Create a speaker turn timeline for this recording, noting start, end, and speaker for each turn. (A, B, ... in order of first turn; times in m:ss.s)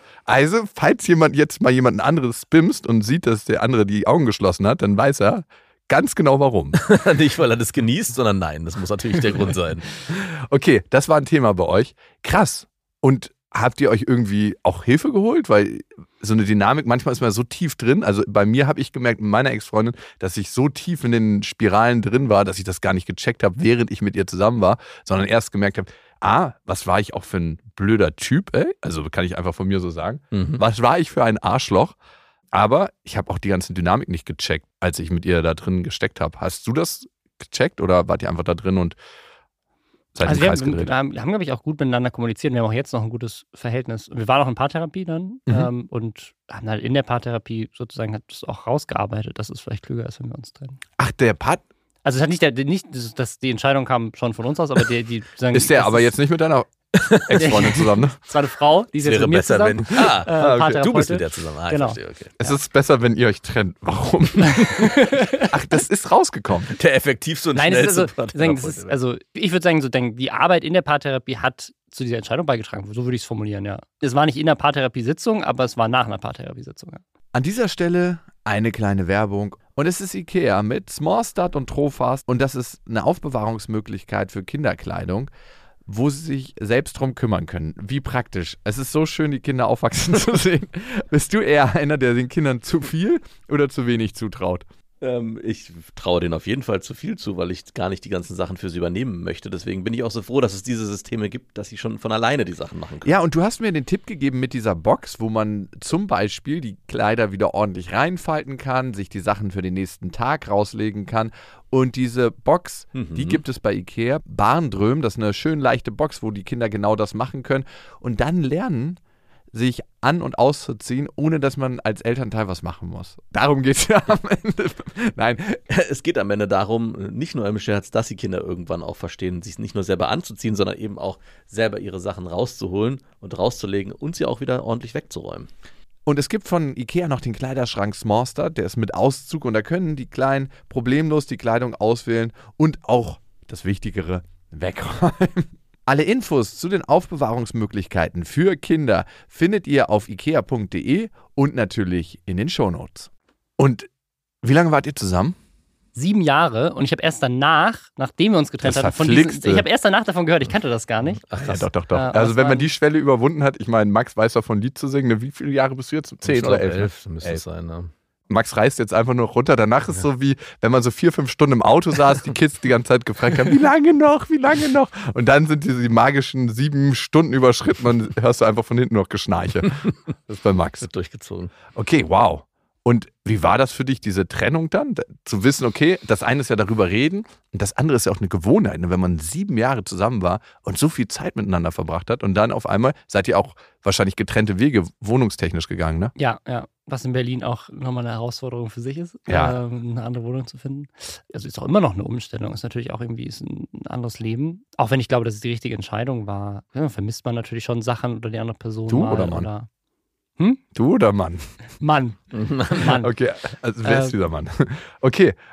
0:00.3-0:06.8 A
0:06.8-0:09.9 B
0:10.1-0:32.0 A
0:30.3-0:30.6 B
0:32.5-0:39.0 A
0:40.1-0:40.9 A
0:40.2-0:50.8 C
0:51.0-0:51.6 A
0:52.0-0:56.1 C
0:55.5-0:58.2 A
0:57.0-0:57.9 B
0:57.4-1:02.5 C
0:59.0-1:02.4 B
1:00.0-1:00.7 A
1:02.4-1:06.7 A
1:05.0-1:05.4 C
1:06.7-1:08.9 B
1:07.5-1:17.0 C
1:17.3-1:25.3 A
1:25.8-1:34.6 A
1:35.0-1:43.2 B
1:43.0-1:59.0 A
1:52.9-1:53.4 B
1:59.5-2:05.6 A
2:05.7-2:15.5 B
2:16.0-2:33.9 A
2:34.4-2:35.4 A
2:35.9-2:41.2 C
2:38.6-2:39.6 A
2:41.2-2:41.7 B
2:41.4-2:47.4 A
2:41.9-2:42.7 C
2:46.2-2:47.9 B
2:48.3-3:00.9 A
3:00.8-3:01.5 B
3:01.7-3:16.1 A
3:16.2-3:29.7 C
3:19.3-3:19.6 A
3:28.9-3:29.5 A
3:30.7-3:31.5 A
3:31.8-3:33.1 C
3:32.3-3:32.8 B
3:33.0-3:35.4 A
3:33.8-3:34.2 C